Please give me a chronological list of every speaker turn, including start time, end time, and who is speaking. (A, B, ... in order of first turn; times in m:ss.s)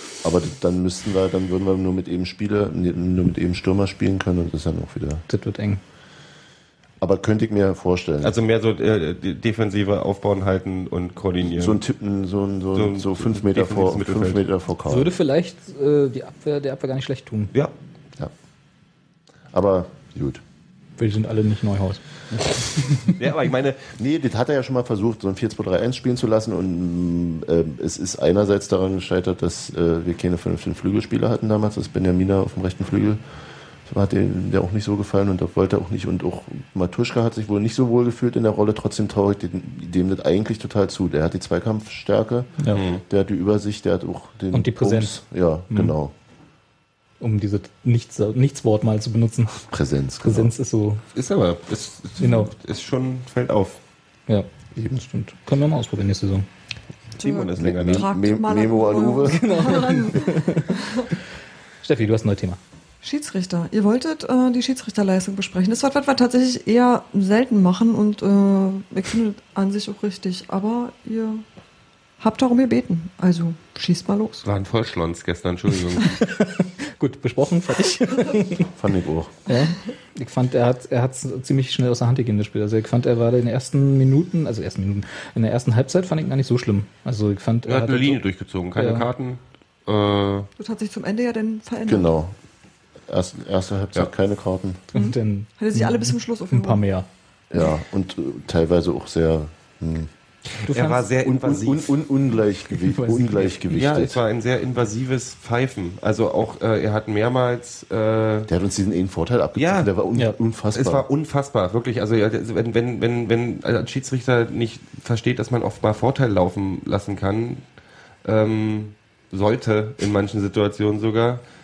0:00.2-0:05.2 A
0:05.3-0:05.8 B
0:07.0-0:08.4 A
0:08.2-0:11.8 C
0:11.4-0:15.1 A
0:12.8-0:14.4 C
0:14.9-0:17.5 B
0:19.5-0:20.4 A
0:21.0-0:22.0 B
0:23.2-0:23.9 C
0:24.0-0:33.2 A
0:33.8-0:46.1 A
0:42.8-0:43.0 C
0:44.5-0:45.9 B
0:47.2-0:49.6 B
0:49.7-0:50.5 A
0:50.2-0:51.0 B
0:51.1-0:53.8 C
0:52.2-0:52.5 B
0:54.3-0:56.5 B
0:57.2-0:58.3 C
0:57.2-1:01.1 D
0:57.6-0:59.4 A
0:59.2-1:00.7 B
1:01.8-1:02.6 B
1:03.0-1:11.4 D
1:12.2-1:14.4 D
1:14.4-1:16.1 C
1:16.2-1:18.7 B
1:18.8-1:19.3 A
1:19.5-1:28.2 B
1:27.7-1:30.5 C
1:28.8-1:29.0 B
1:30.6-1:32.1 D
1:31.9-1:32.4 A
1:33.1-1:34.8 A
1:34.9-1:37.1 B
1:34.9-1:36.8 D
1:37.5-1:40.1 A
1:40.6-1:42.0 C
1:40.6-1:41.0 B
1:41.2-1:44.2 A
1:42.7-1:44.1 B
1:43.7-1:48.5 C
1:48.5-1:51.1 A
1:49.6-1:49.9 C
1:50.7-1:57.6 C
1:58.2-2:01.4 C